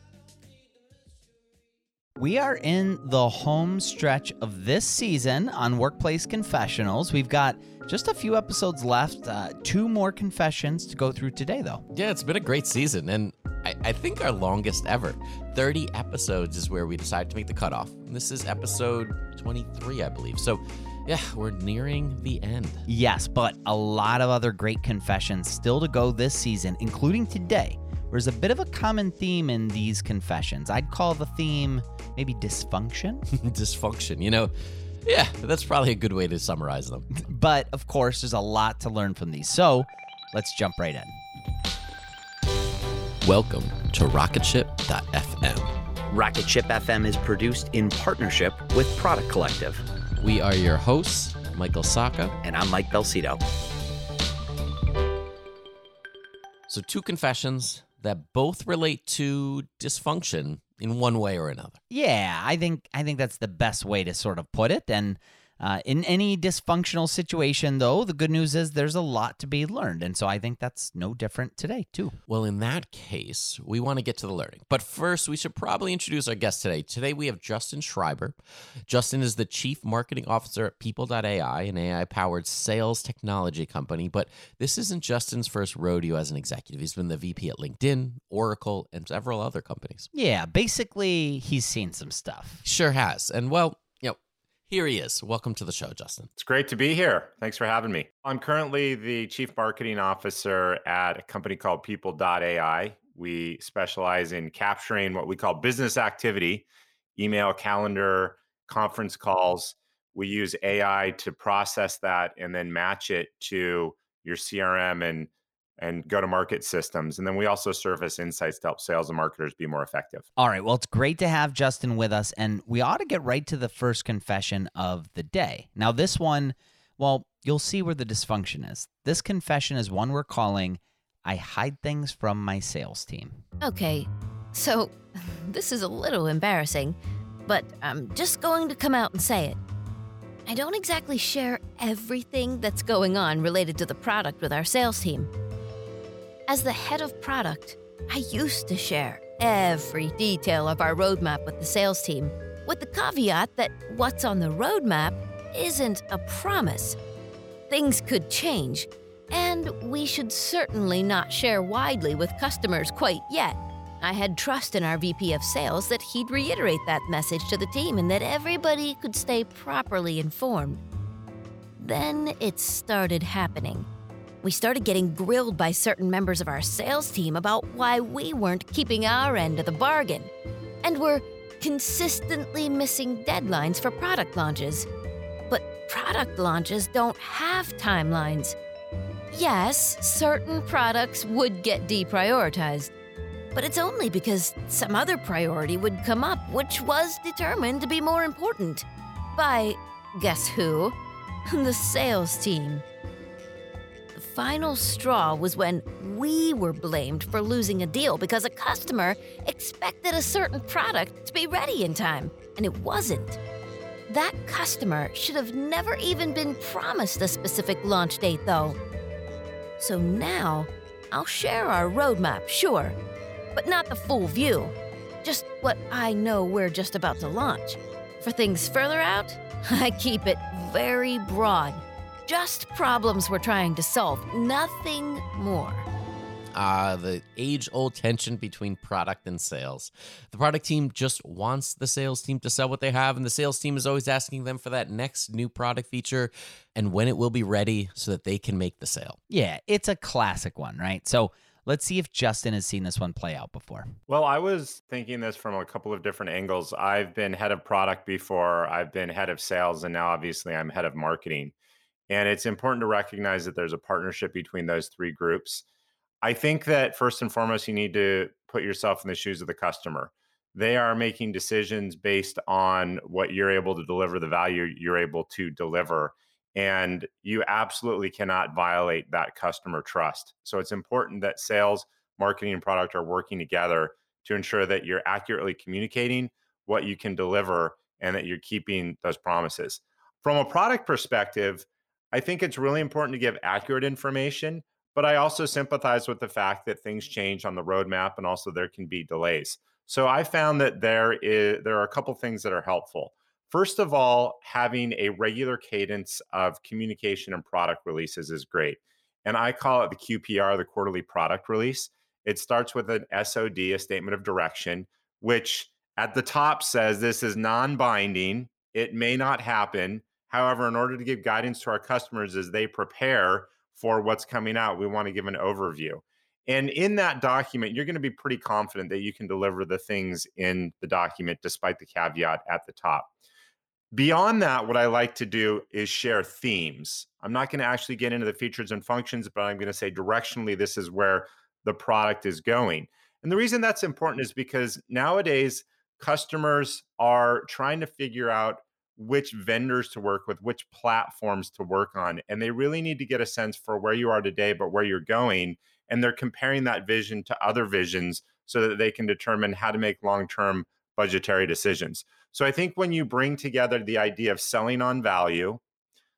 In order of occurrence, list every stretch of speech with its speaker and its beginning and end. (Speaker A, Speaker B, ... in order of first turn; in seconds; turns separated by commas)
Speaker A: 2.2-11.8, Speaker B: 11.9-22.9, Speaker A: 22.9-33.2, Speaker B: 33.3-34.5, Speaker B: 35.0-37.1, Speaker A: 37.1-41.2, Speaker B: 43.2-45.7, Speaker A: 46.1-49.8, Speaker B: 50.2-52.4, Speaker A: 52.4-53.4, Speaker B: 56.7-61.8, Speaker A: 61.9-72.2, Speaker B: 72.3-78.4, Speaker B: 78.9-90.1, Speaker A: 90.1-92.6, Speaker B: 92.6-96.3, Speaker C: 96.4-106.6, Speaker C: 107.2-120.2, Speaker A: 120.4-133.4, Speaker D: 133.6-139.6, Speaker D: 140.5-145.3, Speaker D: 146.5-157.0, Speaker D: 157.7-170.8, Speaker D: 171.8-173.9, Speaker D: 174.4-180.3, Speaker D: 180.8-184.9, Speaker D: 185.5-188.6, Speaker D: 189.3-192.9, Speaker D: 193.5-198.8, Speaker D: 199.3-200.9, Speaker D: 201.5-202.8, Speaker D: 204.2-213.4, Speaker D: 214.1-218.8, Speaker D: 219.8-222.9, Speaker D: 223.5-235.8, Speaker B: 236.5-249.2, Speaker A: 249.3-253.9, Speaker C: 254.1-261.5, Speaker C: 262.1-265.6, Speaker C: 266.2-333.1, Speaker C: 333.9-365.6